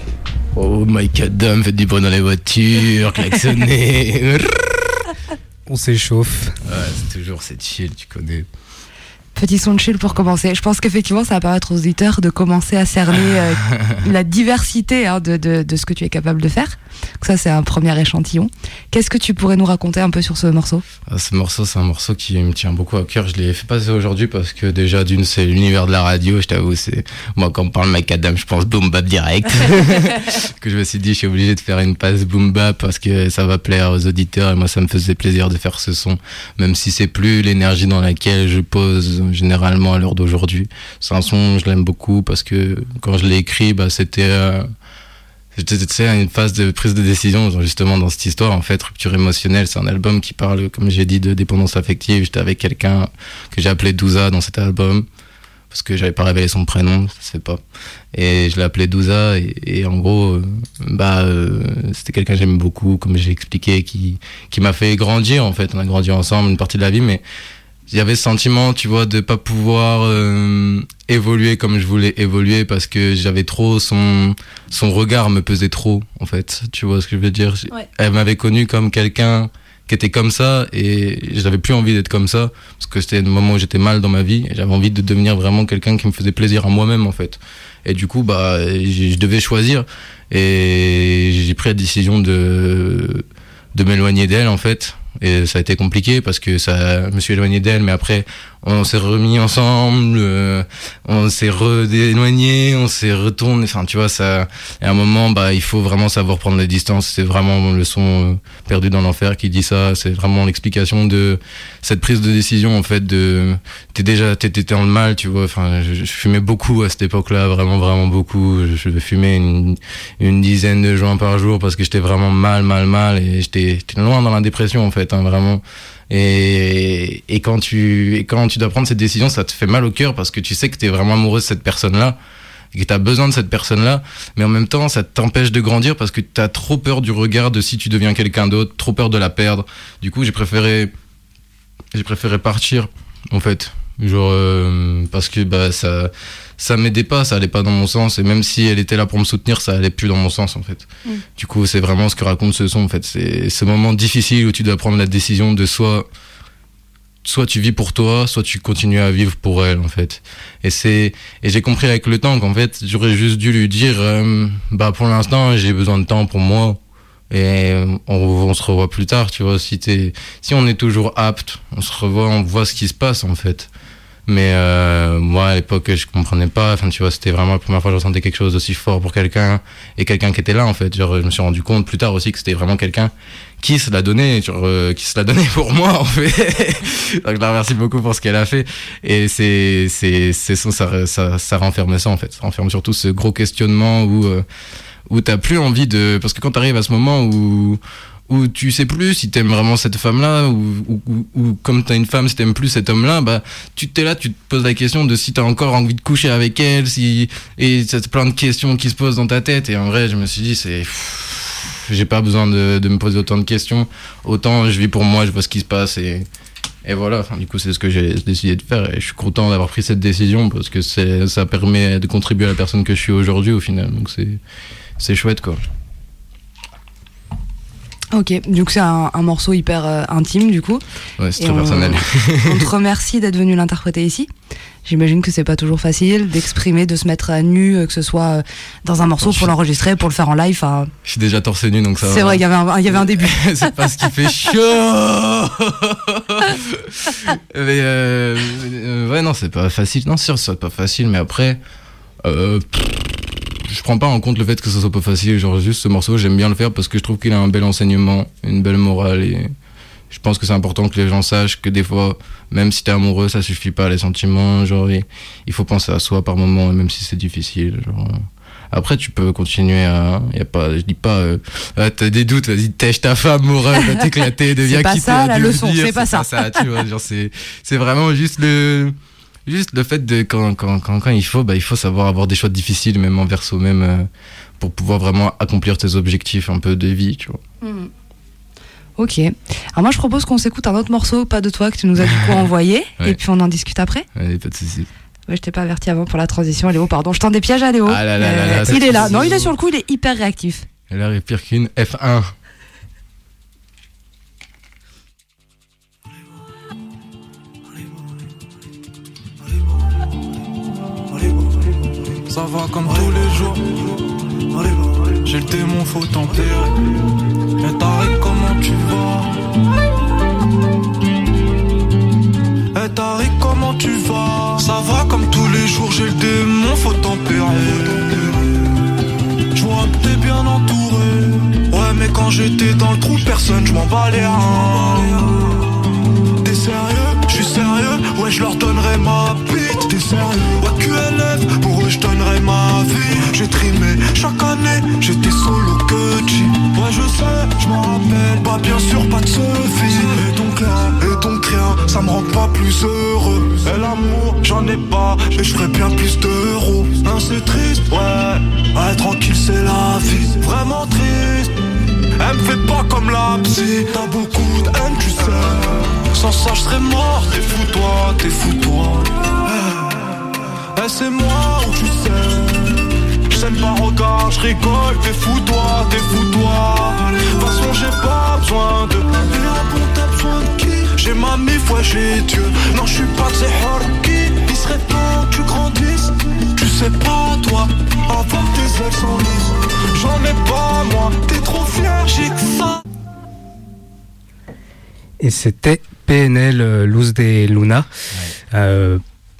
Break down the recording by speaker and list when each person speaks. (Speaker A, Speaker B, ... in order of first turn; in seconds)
Speaker A: 0.6-4.8, 6.6-8.5, 21.1-44.6, 45.5-55.1, 55.7-57.6, 58.1-67.2, 67.9-93.2, 93.8-132.2, 132.7-140.9, 141.9-156.1, 157.2-166.8, 167.3-173.7, 174.3-194.4, 195.1-216.3, 216.8-224.4, 225.0-225.6, 231.2-232.7, 239.2-239.5, 241.1-251.6, 252.2-259.5, 260.1-278.9, 279.5-284.1, 284.6-287.4, 294.2-294.9, 297.9-299.4, 300.9-302.3
Speaker B: 5.7-6.6, 395.2-397.9, 398.5-399.0
Speaker C: 9.3-20.8, 228.1-230.8, 231.4-234.3, 234.8-240.9, 242.0-243.5, 274.6-276.4, 287.6-287.9, 289.0-294.1, 295.3-300.6
Speaker D: 312.3-313.9, 315.1-316.8, 317.6-319.4, 322.7-328.6, 329.5-335.3, 336.4-361.6, 362.2-369.9, 370.8-392.8